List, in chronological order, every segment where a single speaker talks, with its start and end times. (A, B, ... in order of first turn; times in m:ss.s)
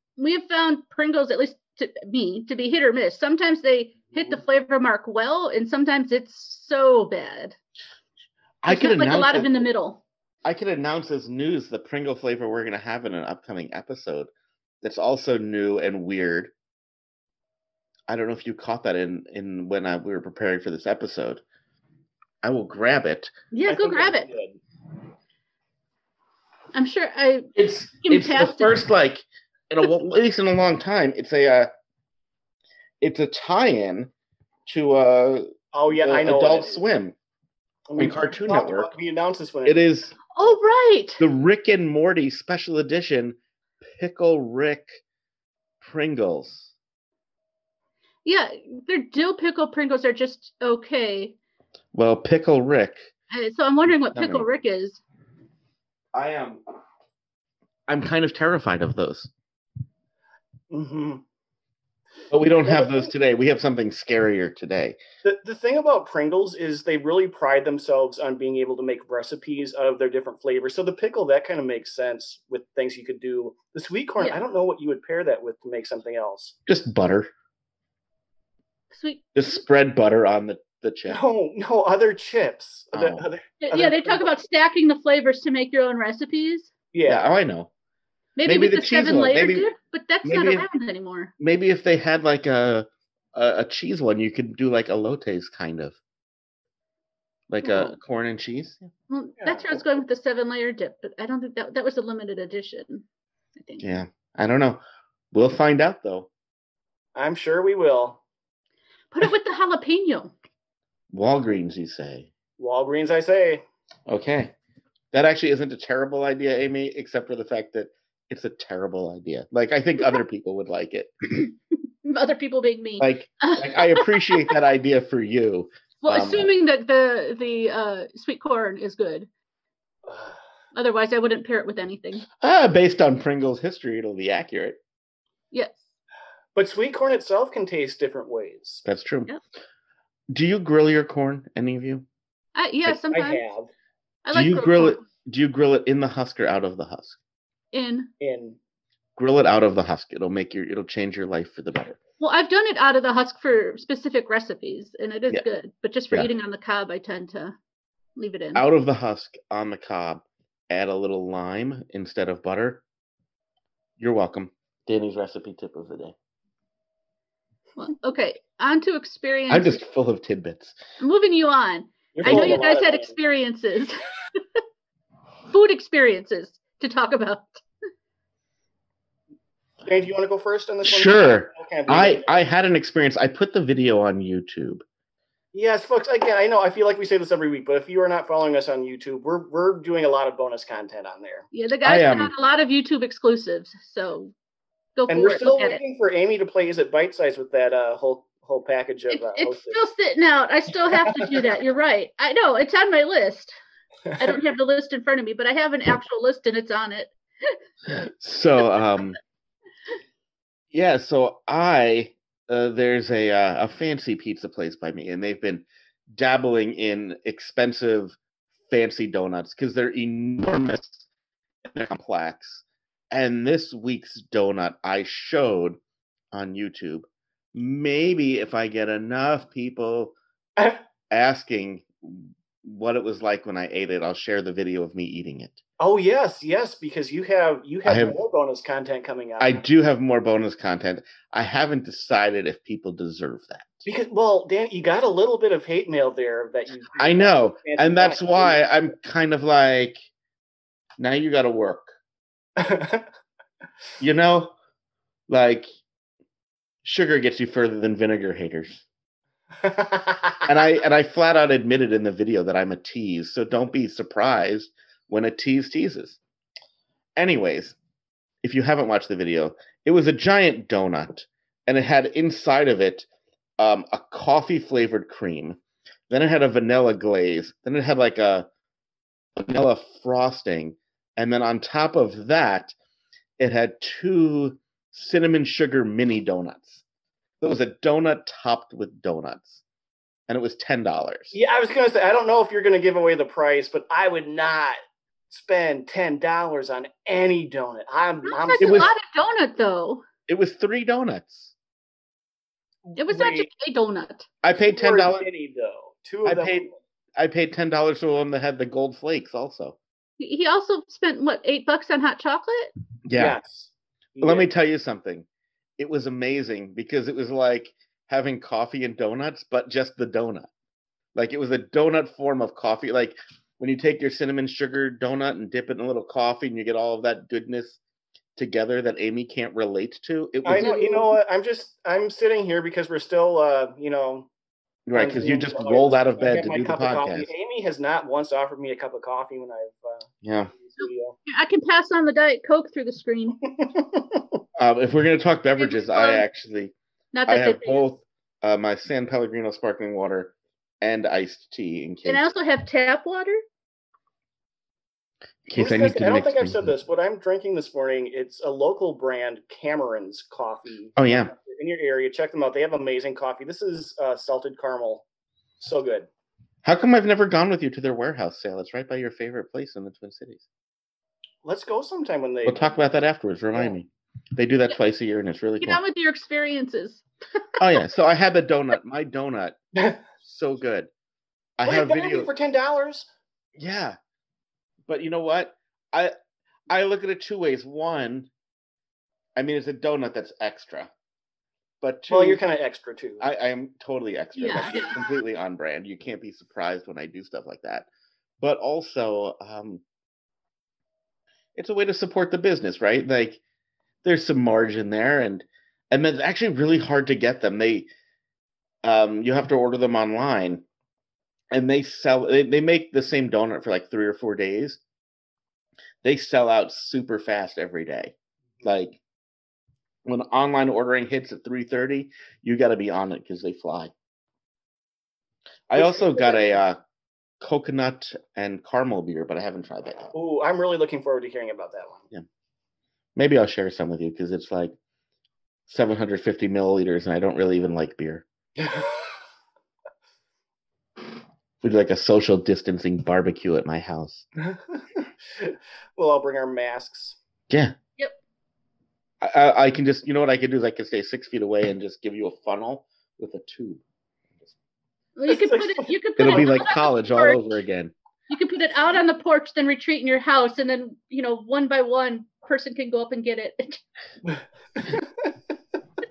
0:00.2-0:07.6 A
0:08.6-0:09.5 B
0:08.7-0:10.0 A
0:10.4-0:14.3 B
0:14.8-0:16.5 B
0:18.1-0:21.4 B
0:22.4-0:23.3 B
0:23.5-0:24.3 A
0:23.6-0:24.6 C
0:26.7-0:27.5 A
0:27.6-0:31.7 B
0:28.0-0:28.8 A
0:33.0-0:34.1 B
0:34.7-0:37.2 B
0:35.7-0:36.8 C
0:37.9-0:39.8 C
0:38.0-0:38.9 B
0:39.7-0:40.2 B
0:40.3-0:41.2 A
0:41.2-0:45.0 B
0:45.8-0:46.7 B
0:48.2-0:51.4 A
0:51.9-0:53.1 B
0:53.3-0:55.0 A
0:54.1-0:54.5 B
0:56.1-0:56.6 B
0:57.9-0:59.3 B
1:00.7-1:01.2 C
1:02.3-1:05.0 B
1:02.6-1:03.1 C
1:05.2-1:16.6 C
1:16.7-1:17.3 B
1:18.9-1:19.3 A
1:19.4-1:21.2 B
1:21.1-1:24.3 C
1:22.9-1:23.2 B
1:23.6-1:26.7 A
1:26.9-1:27.4 C
1:27.1-1:27.7 B
1:28.4-1:31.3 A
1:28.4-1:29.7 B
1:30.2-1:30.7 B
1:31.4-1:36.0 B
1:37.5-1:38.9 B
1:37.6-1:38.0 A
1:39.1-1:43.0 A
1:39.4-1:39.8 C
1:43.6-1:43.8 A
1:43.8-1:44.8 B
1:45.3-1:46.3 B
1:47.2-1:48.2 C
1:49.1-1:50.3 A
1:51.1-1:52.3 B
1:52.6-1:53.6 C
1:54.1-1:54.5 B
1:55.1-2:01.1 B
2:02.0-2:04.5 A
2:03.0-2:06.5 B
2:06.0-2:09.3 A
2:10.1-2:10.3 C
2:10.8-2:12.2 A
2:12.4-2:14.8 B
2:15.5-2:15.9 A
2:16.6-2:18.8 C
2:18.8-2:19.3 B
2:20.3-2:22.0 B
2:22.6-2:23.4 A
2:23.1-2:23.7 C
2:24.3-2:25.0 A
2:24.3-2:27.2 B
2:27.7-2:28.1 A
2:28.2-2:28.6 C
2:29.2-2:32.0 B
2:32.2-2:37.6 A
2:38.2-2:38.6 A
2:38.6-2:42.8 B
2:44.0-2:46.2 B
2:47.8-2:49.8 A
2:49.5-2:50.8 B
2:51.0-2:54.6 A
2:52.2-2:53.1 C
2:52.2-2:52.6 B
2:55.5-2:57.6 A
2:59.8-3:02.2 C
3:00.8-3:04.8 B
3:05.5-3:11.5 C
3:11.5-3:14.3 A
3:11.8-3:12.3 B
3:15.0-3:15.8 A
3:15.1-3:19.8 C
3:19.1-3:23.6 A
3:20.9-3:21.5 C
3:24.2-3:27.6 A
3:28.0-3:29.2 B
3:30.7-3:38.2 B
3:38.7-3:41.0 B
3:41.7-3:45.8 B
3:46.3-3:50.2 B
3:50.6-3:50.8 C
3:51.1-3:55.6 B
3:55.8-3:59.6 C
3:57.8-3:58.2 B
3:59.4-4:03.8 B
4:03.8-4:08.6 C
4:07.0-4:10.0 B
4:11.0-4:12.0 B
4:12.6-4:13.1 C
4:14.0-4:14.5 B
4:15.3-4:15.7 B
4:16.8-4:18.8 B
4:19.6-4:20.5 C
4:20.5-4:26.2 B
4:27.2-4:27.8 B
4:28.4-4:33.1 B
4:33.6-4:35.6 B
4:36.1-4:38.5 B
4:39.4-4:42.7 B
4:43.4-4:46.8 B
4:47.4-4:49.6 B
4:50.3-4:51.4 B
4:51.3-4:54.8 C
4:55.3-4:58.9 C
4:58.2-5:00.0 A
4:58.6-4:58.9 B
5:00.3-5:01.5 B
5:02.9-5:03.5 C
5:03.0-5:04.3 A
5:04.4-5:05.3 B
5:04.6-5:06.7 C
5:06.2-5:09.8 B
5:10.2-5:12.7 A
5:13.1-5:13.4 B
5:13.1-5:14.5 C
5:14.2-5:15.3 B
5:15.8-5:20.5 B
5:21.2-5:27.8 B
5:28.4-5:30.8 B
5:30.4-5:34.3 C
5:30.6-5:31.1 A
5:34.9-5:37.3 B
5:34.9-5:41.2 C
5:40.2-5:40.5 B
5:40.8-5:43.4 A
5:43.5-5:44.2 C
5:44.6-5:46.7 B
5:45.6-5:46.2 A
5:47.1-5:47.9 A
5:47.3-5:52.3 B
5:52.1-5:53.4 A
5:55.5-5:56.7 B
5:55.6-6:05.0 C
6:01.0-6:01.3 B
6:05.6-6:06.1 C
6:06.6-6:10.4 B
6:11.4-6:12.8 C
6:12.5-6:15.8 B
6:15.6-6:17.0 A
6:17.6-6:19.6 B
6:19.8-6:20.0 C
6:20.2-6:20.9 B
6:21.6-6:22.3 B
6:21.6-6:23.1 C
6:23.6-6:24.0 B
6:24.9-6:26.1 B
6:26.7-6:28.3 B
6:29.4-6:30.9 B
6:31.8-6:32.4 B
6:32.1-6:33.3 C
6:33.2-6:37.9 B
6:34.4-6:35.0 A
6:38.4-6:39.8 B
6:41.6-6:43.4 B
6:44.0-6:47.9 B
6:48.8-6:50.6 B
6:51.5-6:54.8 B
6:56.0-6:59.0 B
7:00.1-7:03.9 B
7:05.7-7:06.8 B
7:05.8-7:06.5 C
7:07.4-7:10.1 B
7:10.1-7:12.1 C
7:13.2-7:14.8 B
7:15.7-7:18.3 B
7:18.6-7:19.2 C
7:21.6-7:24.3 B
7:24.4-7:27.2 C
7:27.5-7:27.8 B
7:29.2-7:33.8 B
7:35.2-7:37.5 A
7:35.3-7:36.6 C
7:36.2-7:37.9 B
7:38.3-7:43.8 A
7:44.3-7:45.3 C